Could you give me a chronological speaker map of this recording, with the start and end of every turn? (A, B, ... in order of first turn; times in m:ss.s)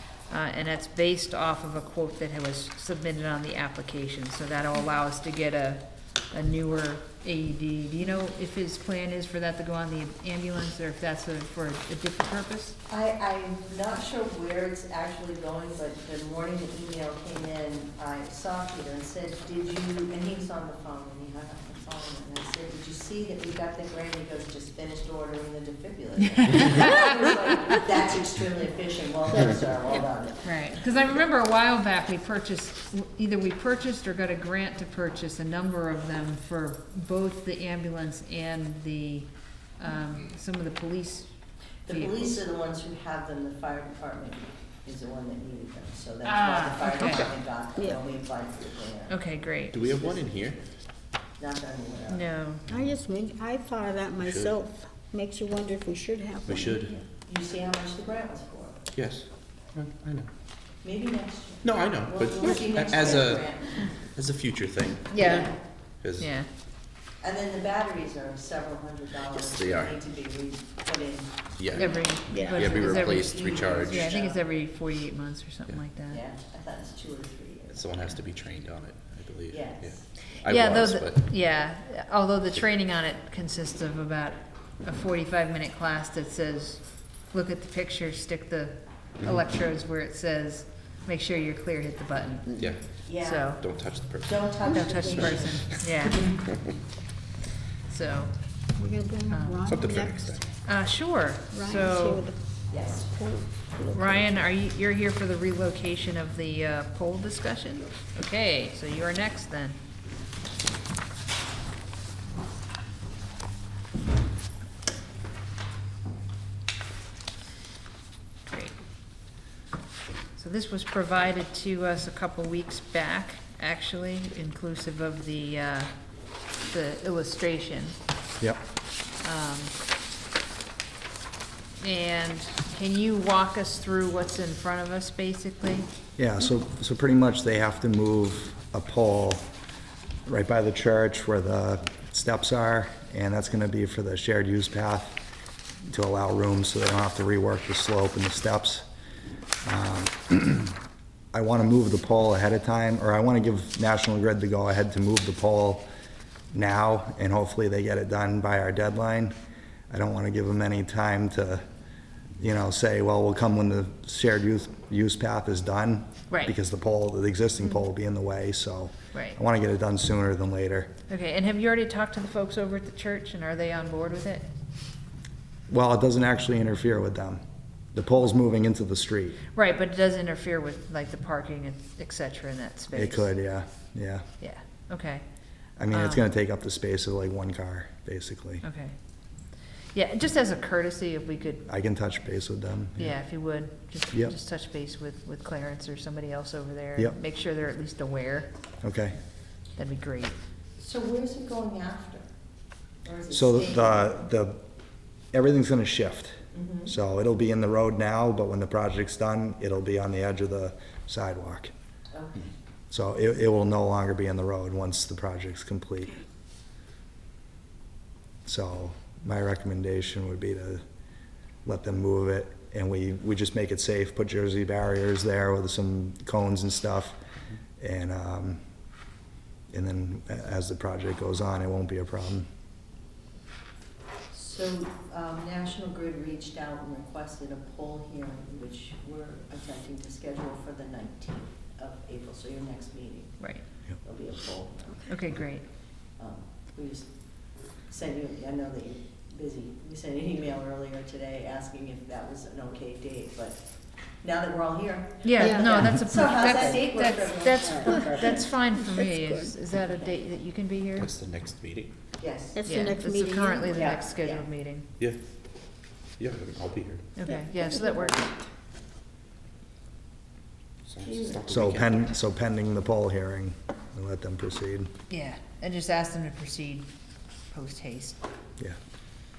0:00.3-0:12.8 A
0:12.9-0:30.5 B
0:26.4-0:27.0 A
0:30.4-0:41.3 A
0:41.9-0:49.2 B
0:41.9-0:42.4 A
0:46.2-0:47.3 A
0:47.0-0:47.3 C
0:47.8-0:48.0 D
0:49.1-0:49.8 A
0:49.7-0:50.6 C
0:49.8-0:50.3 B
0:51.4-0:52.3 B
0:52.1-0:52.6 A
0:52.7-0:56.8 D
0:54.2-0:54.6 C
0:56.5-0:57.0 C
0:57.1-0:58.9 B
0:59.0-1:00.3 C
1:00.8-1:03.9 B
1:01.6-1:05.4 C
1:02.5-1:02.7 D
1:05.1-1:05.6 A
1:05.2-1:05.5 B
1:06.0-1:06.3 C
1:06.2-1:06.5 A
1:07.2-1:14.4 B
1:09.5-1:10.0 C
1:11.6-1:14.2 C
1:11.8-1:16.2 A
1:12.3-1:12.6 D
1:16.1-1:17.9 B
1:17.7-1:21.3 C
1:19.5-1:20.2 B
1:20.4-1:32.6 A
1:32.6-1:33.0 C
1:33.0-1:33.6 B
1:33.2-1:33.6 A
1:33.5-1:36.2 C
1:34.2-1:35.8 B
1:34.7-1:36.3 A
1:37.9-1:38.3 A
1:38.8-1:40.4 D
1:39.3-1:39.7 A
1:39.6-1:40.5 C
1:40.6-1:42.3 A
1:41.5-1:44.3 D
1:42.7-1:43.1 B
1:43.9-1:49.8 A
1:58.5-1:58.8 A
2:00.4-2:05.9 A
2:06.6-2:08.0 A
2:09.2-2:09.8 A
2:11.8-2:15.9 A
2:16.2-2:19.5 E
2:20.3-2:25.2 E
2:25.9-2:28.9 E
2:29.6-2:30.8 E
2:31.3-2:35.9 E
2:36.5-2:39.3 E
2:39.9-2:41.6 E
2:42.4-2:50.9 E
2:51.1-2:54.5 A
2:55.7-2:57.4 E
2:57.9-2:59.4 E
2:59.5-3:03.3 A
3:02.9-3:04.2 E
3:04.4-3:05.2 A
3:05.8-3:08.6 E
3:05.9-3:06.3 A
3:08.6-3:09.0 A
3:09.9-3:11.7 A
3:11.7-3:13.1 E
3:13.0-3:18.5 A
3:18.8-3:19.2 E
3:19.8-3:20.4 A
3:20.8-3:22.3 B
3:23.0-3:24.1 B
3:23.3-3:24.6 E
3:25.3-3:31.7 E
3:26.6-3:26.9 B
3:32.1-3:32.5 B
3:32.9-3:36.1 E
3:38.4-3:40.8 E
3:41.6-3:47.2 E
3:47.8-3:48.6 E
3:49.7-3:52.5 E
3:54.3-4:05.1 B
4:05.0-4:05.6 A
4:06.2-4:13.6 B
4:14.2-4:18.4 B
4:15.2-4:21.1 A
4:15.4-4:19.7 D
4:21.0-4:21.9 C
4:22.2-4:22.7 B
4:22.5-4:23.8 D
4:22.6-4:24.9 A
4:23.7-4:24.4 B
4:26.2-4:27.1 C
4:27.2-4:28.3 A
4:27.3-4:28.3 D
4:30.9-4:32.0 C
4:31.5-4:34.9 E
4:35.1-4:36.9 A
4:37.5-4:38.2 A